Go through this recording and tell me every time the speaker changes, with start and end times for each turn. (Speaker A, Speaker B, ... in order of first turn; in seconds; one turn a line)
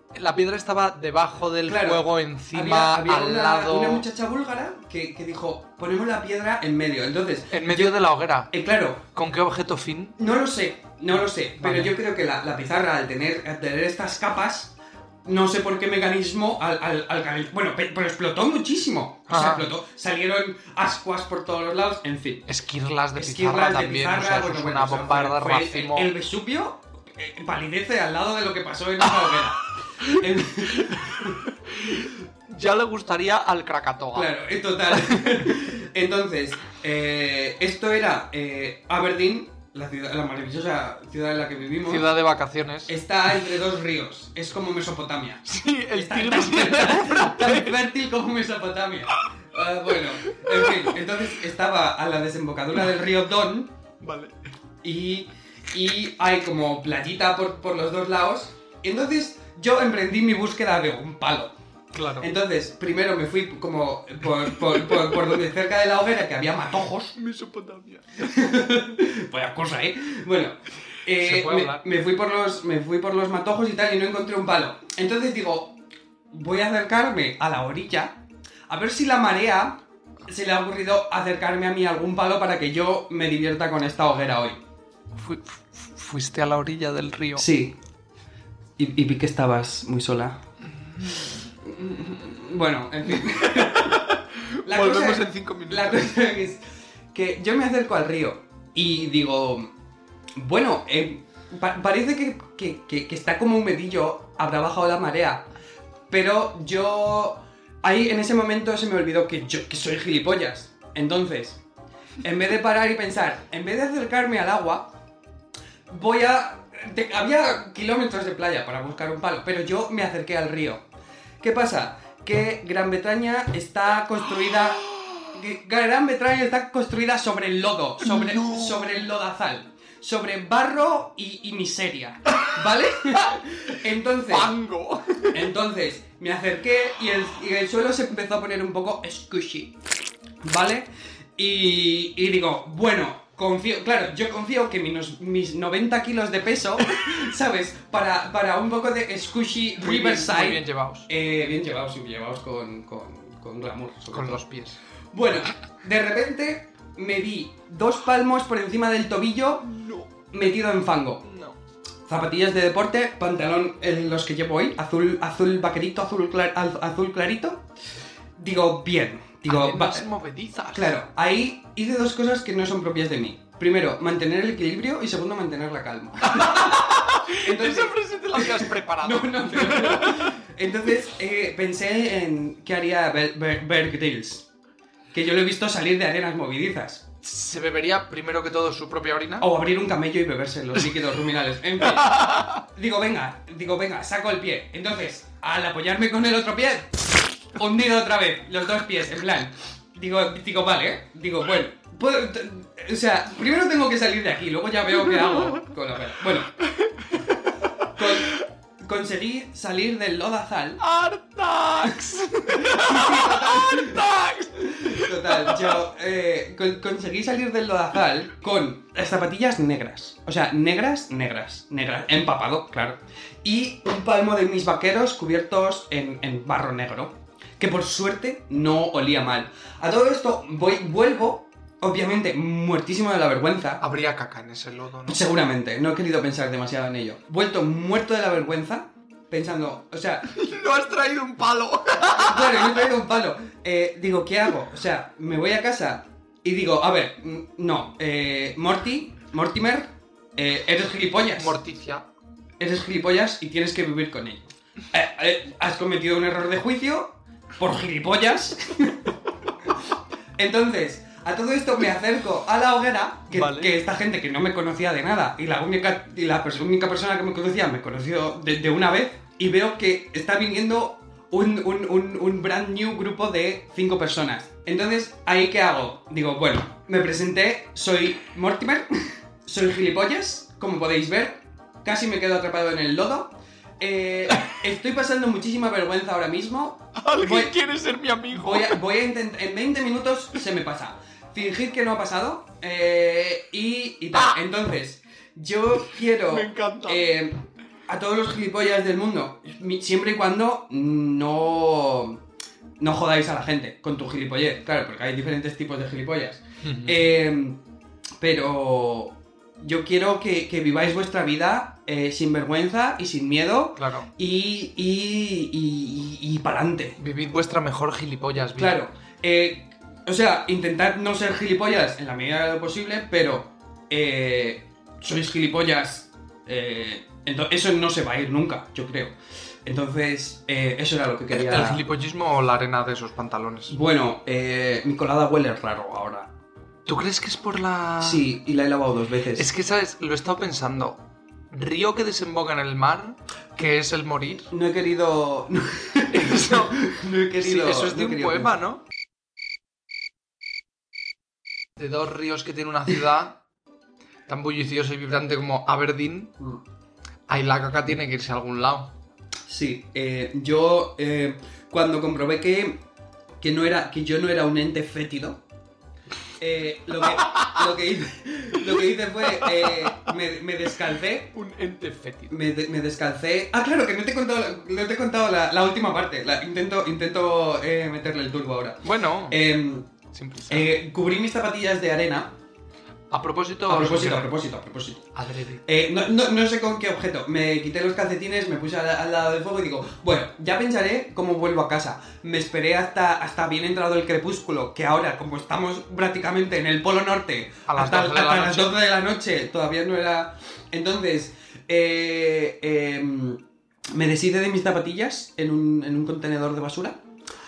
Speaker A: 0.1-4.1
Speaker B: 1.7-9.0
Speaker A: 7.5-8.5
Speaker A: 9.1-10.2
Speaker B: 10.2-22.5
Speaker A: 11.6-11.9
Speaker A: 19.3-19.7
Speaker A: 22.5-26.1
Speaker B: 23.2-31.4
Speaker A: 30.7-34.3
Speaker B: 34.1-42.1
Speaker A: 41.9-43.0
Speaker B: 42.9-53.8
Speaker A: 45.5-47.9
Speaker A: 50.1-51.1
Speaker A: 54.0-54.3
Speaker B: 54.8-61.5
Speaker A: 61.9-62.3
Speaker B: 62.2-67.2
Speaker A: 64.7-65.2
Speaker A: 67.2-68.5
Speaker B: 68.2-75.8
Speaker A: 71.1-71.8
Speaker B: 76.3-84.6
Speaker A: 85.2-87.5
Speaker B: 87.4-87.8
Speaker B: 88.8-90.4
Speaker A: 91.0-91.3
Speaker B: 91.6-96.6
Speaker A: 93.3-96.1
Speaker B: 97.1-99.7
Speaker B: 100.4-105.5
Speaker B: 106.1-111.6
Speaker B: 112.2-114.9
Speaker B: 115.9-120.8
Speaker B: 121.4-134.5
Speaker A: 124.9-125.2
Speaker A: 128.0-129.1
Speaker A: 134.2-135.5
Speaker B: 135.3-139.8
Speaker B: 140.4-154.4
Speaker A: 149.8-151.1
Speaker A: 154.1-154.8
Speaker B: 155.1-159.8
Speaker A: 159.7-160.1
Speaker B: 160.3-161.3
Speaker A: 161.2-161.6
Speaker B: 162.1-167.7
Speaker B: 168.4-170.1
Speaker A: 169.5-170.9
Speaker B: 170.7-184.5
Speaker A: 176.2-180.4
Speaker B: 185.1-187.1
Speaker A: 187.2-189.5
Speaker B: 189.4-197.0
Speaker A: 191.9-192.6
Speaker B: 197.5-206.6
Speaker A: 205.1-205.5
Speaker A: 206.6-207.4
Speaker B: 207.8-210.8
Speaker A: 210.8-215.8
Speaker B: 212.5-214.1
Speaker B: 214.6-233.8
Speaker A: 233.8-235.3
Speaker B: 235.1-240.3
Speaker A: 240.3-242.9
Speaker B: 242.2-251.6
Speaker A: 251.4-252.1
Speaker B: 252.6-259.1
Speaker B: 260.4-287.6
Speaker A: 263.3-263.7
Speaker A: 287.0-288.8
Speaker B: 288.3-302.2
Speaker A: 296.3-297.1
Speaker B: 302.8-307.6
Speaker A: 306.6-307.1
Speaker B: 308.2-317.0
Speaker A: 313.8-314.1
Speaker A: 317.0-318.8
Speaker B: 318.6-331.8
Speaker A: 331.3-333.8
Speaker B: 333.7-336.3
Speaker A: 336.9-338.2
Speaker B: 338.0-339.5
Speaker A: 339.4-344.5
Speaker B: 344.5-348.6
Speaker A: 346.1-346.8
Speaker A: 347.4-348.8
Speaker A: 351.8-353.4
Speaker A: 354.3-356.4
Speaker A: 357.3-359.0
Speaker B: 359.5-362.8
Speaker B: 363.4-365.4
Speaker B: 366.4-371.3
Speaker A: 369.4-369.9
Speaker A: 371.3-372.4
Speaker B: 372.3-379.9
Speaker A: 378.8-379.4
Speaker A: 380.1-380.7
Speaker B: 380.5-382.4
Speaker A: 383.1-384.3
Speaker B: 383.7-385.1
Speaker A: 385.1-385.6
Speaker B: 385.6-407.0
Speaker A: 397.7-398.8